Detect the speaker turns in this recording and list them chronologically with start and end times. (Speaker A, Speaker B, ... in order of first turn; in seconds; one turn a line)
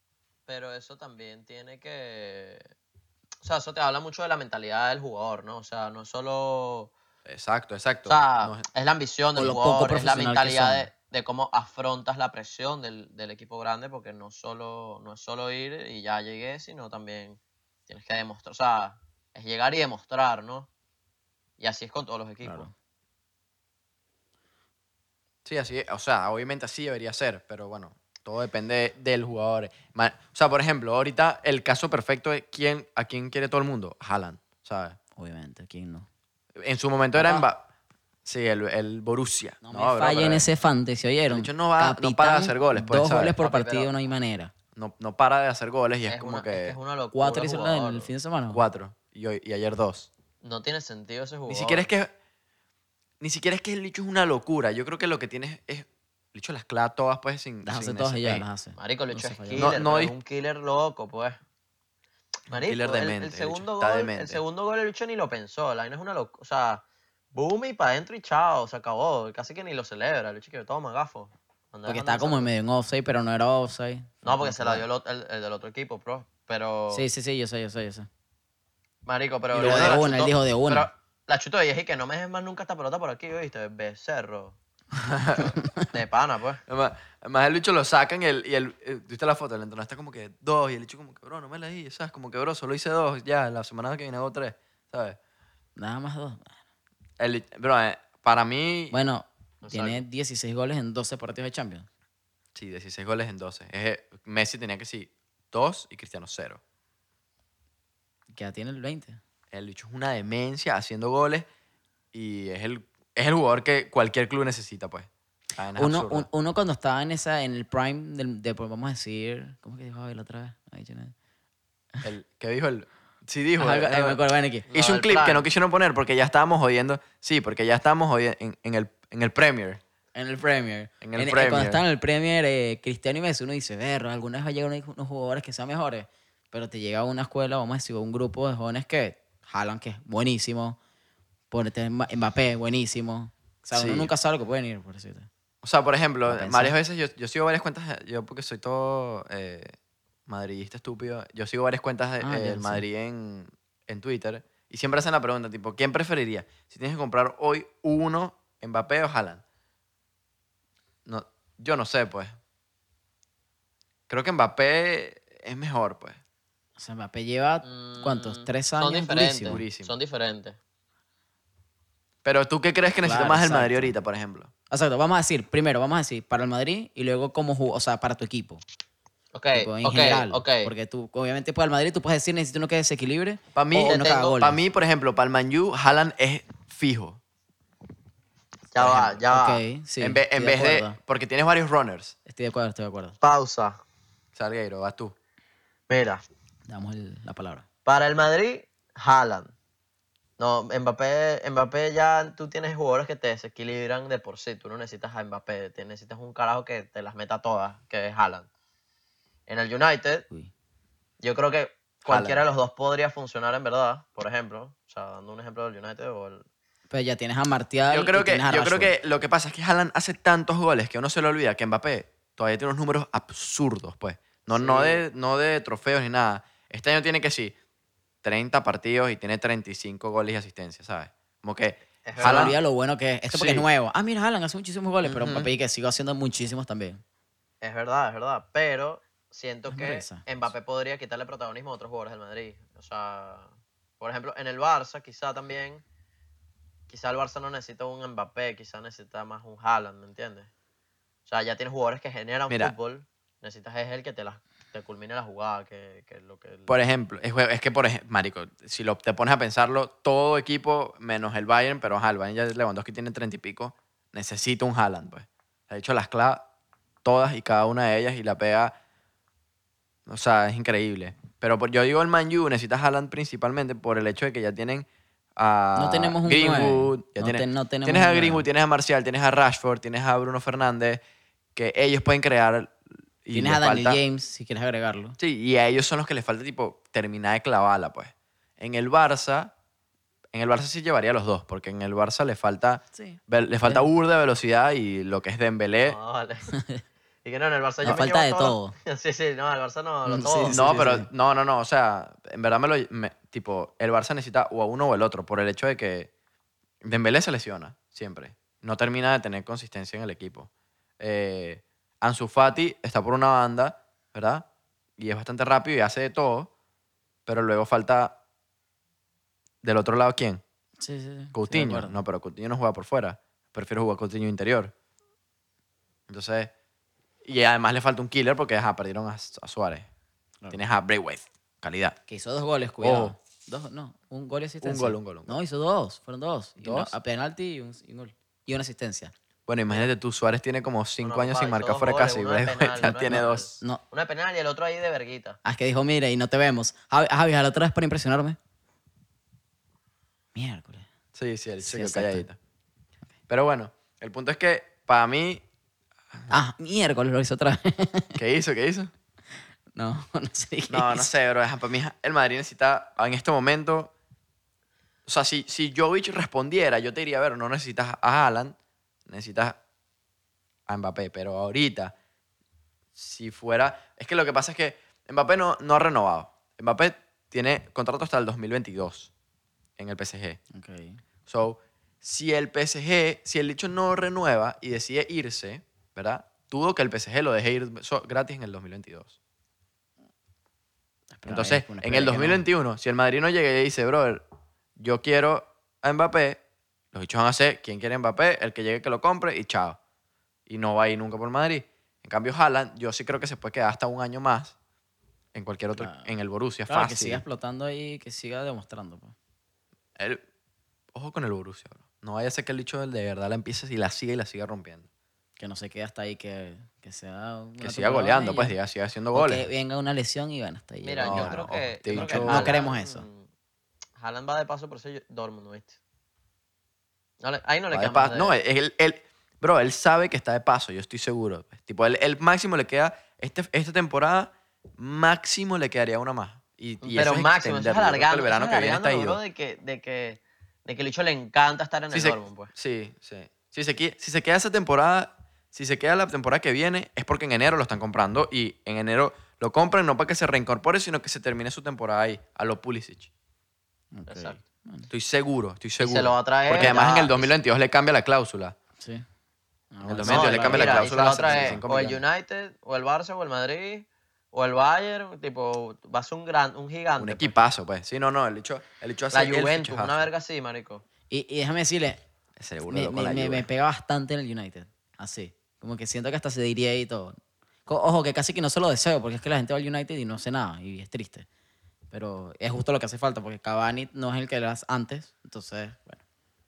Speaker A: 0.5-2.7
Speaker A: 3.4-6.9
Speaker B: 7.3-8.6
Speaker A: 8.1-20.7
Speaker C: 9.4-10.9
Speaker A: 21.6-22.7
Speaker C: 22.4-22.7
Speaker B: 25.4-35.0
Speaker C: 35.2-36.1
Speaker B: 36.6-37.7
Speaker C: 37.1-37.5
Speaker B: 38.2-40.5
Speaker C: 39.6-44.5
Speaker B: 41.3-43.4
Speaker A: 43.4-43.9
Speaker B: 44.8-46.8
Speaker A: 46.1-48.1
Speaker C: 47.1-48.6
Speaker B: 48.5-50.1
Speaker A: 50.4-51.9
Speaker B: 51.5-52.1
Speaker B: 53.2-58.5
Speaker C: 57.6-59.7
Speaker A: 58.8-61.4
Speaker B: 59.6-60.1
Speaker A: 62.5-72.5
Speaker B: 62.5-64.4
Speaker C: 71.9-74.8
Speaker A: 74.2-77.1
Speaker C: 76.9-78.1
Speaker A: 79.0-84.6
Speaker C: 79.5-80.9
Speaker B: 79.6-80.0
Speaker B: 84.9-85.5
Speaker C: 85.6-85.9
Speaker A: 85.7-86.6
Speaker B: 86.7-95.2
Speaker C: 95.8-96.6
Speaker B: 97.2-99.0
Speaker C: 98.9-101.9
Speaker A: 99.6-100.0
Speaker B: 102.5-106.6
Speaker C: 108.3-109.2
Speaker B: 109.5-111.5
Speaker B: 112.1-116.3
Speaker C: 115.8-121.1
Speaker B: 122.0-124.2
Speaker C: 123.6-124.7
Speaker A: 124.7-125.5
Speaker B: 124.7-129.8
Speaker C: 130.2-140.8
Speaker B: 131.0-131.8
Speaker C: 141.5-145.3
Speaker B: 143.7-144.1
Speaker B: 145.6-149.7
Speaker C: 146.3-146.8
Speaker B: 150.3-159.4
Speaker C: 152.2-152.8
Speaker B: 161.1-162.4
Speaker B: 164.1-166.2
Speaker C: 166.8-169.6
Speaker A: 167.6-170.6
Speaker B: 169.5-169.9
Speaker B: 172.2-174.5
Speaker C: 173.0-173.9
Speaker C: 174.7-178.6
Speaker A: 179.3-180.7
Speaker C: 179.5-184.6
Speaker B: 183.6-187.2
Speaker A: 183.8-184.4
Speaker A: 188.7-189.6
Speaker B: 188.8-189.2
Speaker C: 189.2-191.0
Speaker B: 190.0-192.2
Speaker C: 192.3-193.2
Speaker A: 193.2-193.8
Speaker B: 194.3-195.2
Speaker A: 195.9-196.2
Speaker C: 196.7-197.7
Speaker A: 197.8-199.5
Speaker A: 200.4-208.5
Speaker A: 209.5-210.2
Speaker A: 211.2-216.5
Speaker B: 212.1-212.4
Speaker C: 216.9-218.9
Speaker B: 217.9-227.6
Speaker A: 224.5-225.0
Speaker B: 228.2-232.6
Speaker A: 232.1-232.6
Speaker C: 232.2-237.0
Speaker B: 233.3-233.7
Speaker B: 235.0-235.5
Speaker A: 237.6-245.8
Speaker C: 239.7-240.3
Speaker A: 246.9-250.5
Speaker A: 251.3-256.8
Speaker B: 252.5-252.8
Speaker B: 256.7-266.4
Speaker B: 267.0-268.7
Speaker B: 270.1-281.0
Speaker C: 275.8-278.4
Speaker B: 281.6-284.0
Speaker C: 283.3-285.2
Speaker B: 285.2-289.5
Speaker B: 290.3-296.0
Speaker C: 292.9-293.9
Speaker A: 295.8-296.5
Speaker C: 296.5-296.8
Speaker A: 297.2-300.7
Speaker C: 297.8-298.8
Speaker C: 300.1-301.1
Speaker B: 300.5-306.1
Speaker B: 306.8-314.4
Speaker B: 315.0-316.5
Speaker B: 317.3-318.2
Speaker B: 319.6-320.4
Speaker C: 320.8-322.0
Speaker B: 321.3-324.7
Speaker B: 326.1-326.5
Speaker B: 327.2-329.9
Speaker B: 330.5-332.0
Speaker C: 332.1-339.1
Speaker B: 332.8-333.2
Speaker B: 334.6-335.4
Speaker B: 336.6-336.9
Speaker B: 339.5-343.6
Speaker A: 341.0-345.4
Speaker C: 343.0-343.8
Speaker C: 345.4-348.4
Speaker C: 350.4-350.9
Speaker B: 351.1-352.4
Speaker C: 351.6-352.2
Speaker B: 353.3-355.4
Speaker C: 356.3-358.2
Speaker B: 358.2-358.9
Speaker C: 359.8-361.1
Speaker B: 360.7-363.9
Speaker B: 365.1-368.6
Speaker B: 369.1-369.6
Speaker B: 370.7-371.9
Speaker B: 372.9-379.1
Speaker B: 379.8-380.4
Speaker C: 380.5-381.0
Speaker B: 381.3-389.2
Speaker C: 391.2-392.4
Speaker B: 391.3-394.2
Speaker B: 394.8-396.4
Speaker B: 396.9-399.8
Speaker B: 400.5-404.6
Speaker B: 405.3-407.2
Speaker C: 405.8-406.1
Speaker C: 406.7-409.1
Speaker B: 410.0-410.2
Speaker B: 410.9-414.9
Speaker C: 415.4-418.6
Speaker B: 417.6-419.5
Speaker C: 419.1-423.1
Speaker A: 420.8-423.3
Speaker B: 421.0-422.5
Speaker A: 424.0-425.8
Speaker A: 427.2-428.4
Speaker B: 427.7-439.2
Speaker A: 436.8-442.5
Speaker B: 441.9-453.1
Speaker C: 453.9-454.9
Speaker A: 454.1-454.4
Speaker B: 454.9-458.6
Speaker A: 455.8-457.3
Speaker C: 458.8-459.1
Speaker C: 459.7-461.6
Speaker B: 459.9-462.0
Speaker A: 460.0-467.4
Speaker B: 467.0-470.1
Speaker A: 469.1-470.9
Speaker C: 471.1-472.0
Speaker B: 472.4-473.5
Speaker C: 472.7-481.3
Speaker C: 481.9-486.0